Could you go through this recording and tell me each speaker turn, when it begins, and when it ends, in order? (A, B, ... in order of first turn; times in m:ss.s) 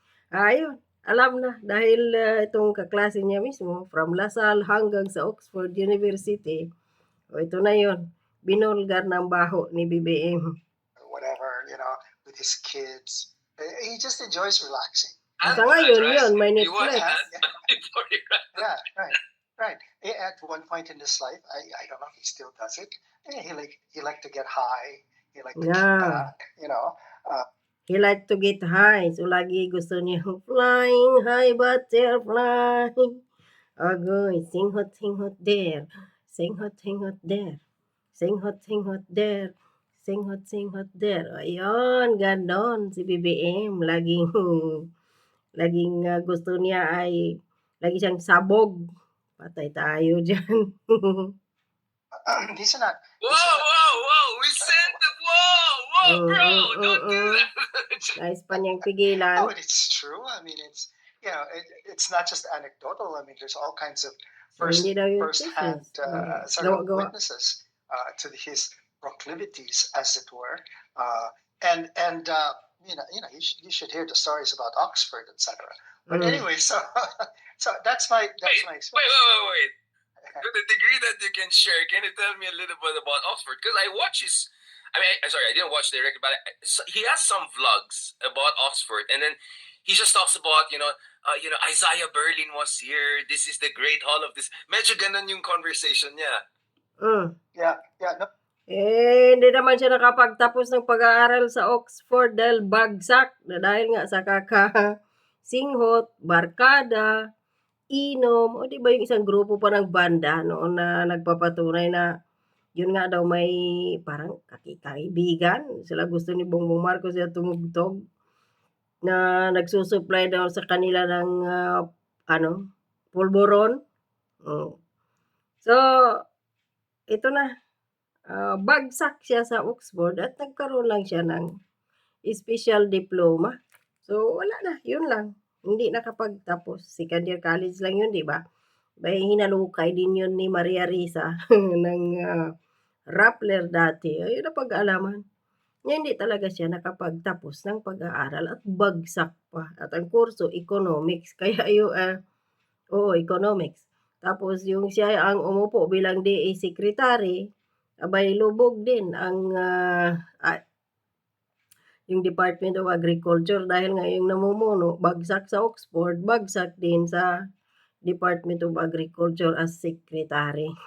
0:00.4-0:06.6 A
0:07.3-0:10.4 A
0:11.0-0:17.5 B
0:15.4-0:18.6 C
0:15.5-0:17.0 A
0:18.5-0:27.4 B
0:25.6-0:26.2 A
0:27.9-0:33.1 A
0:33.8-0:37.6 A
0:38.1-0:44.8 A
0:45.6-0:47.2 A
0:47.8-0:48.7 A
0:49.4-0:51.3 A
0:52.2-0:53.8 B
0:53.2-0:58.2 C
0:56.0-0:57.4 A
0:58.2-0:59.5 A
0:59.4-1:19.4 B
1:04.6-1:07.1 A
1:16.1-1:16.4 A
1:18.4-1:19.7 C
1:20.4-1:36.4 C
1:37.0-1:37.3 A
1:37.6-1:38.3 B
1:38.7-1:44.8 A
1:45.4-1:47.1 A
1:47.9-1:52.0 A
1:52.8-1:53.5 A
1:54.0-1:57.9 A
1:59.1-2:02.6 A
2:03.1-2:03.8 A
2:04.4-2:04.7 A
2:07.1-2:07.5 A
2:08.3-2:11.4 A
2:12.3-2:13.5 A
2:14.0-2:18.4 A
2:19.0-2:22.3 A
2:23.2-2:25.2 A
2:25.9-2:32.1 A
2:33.0-2:37.4 A
2:38.0-2:40.6 A
2:42.1-2:47.3 A
2:48.1-2:50.7 A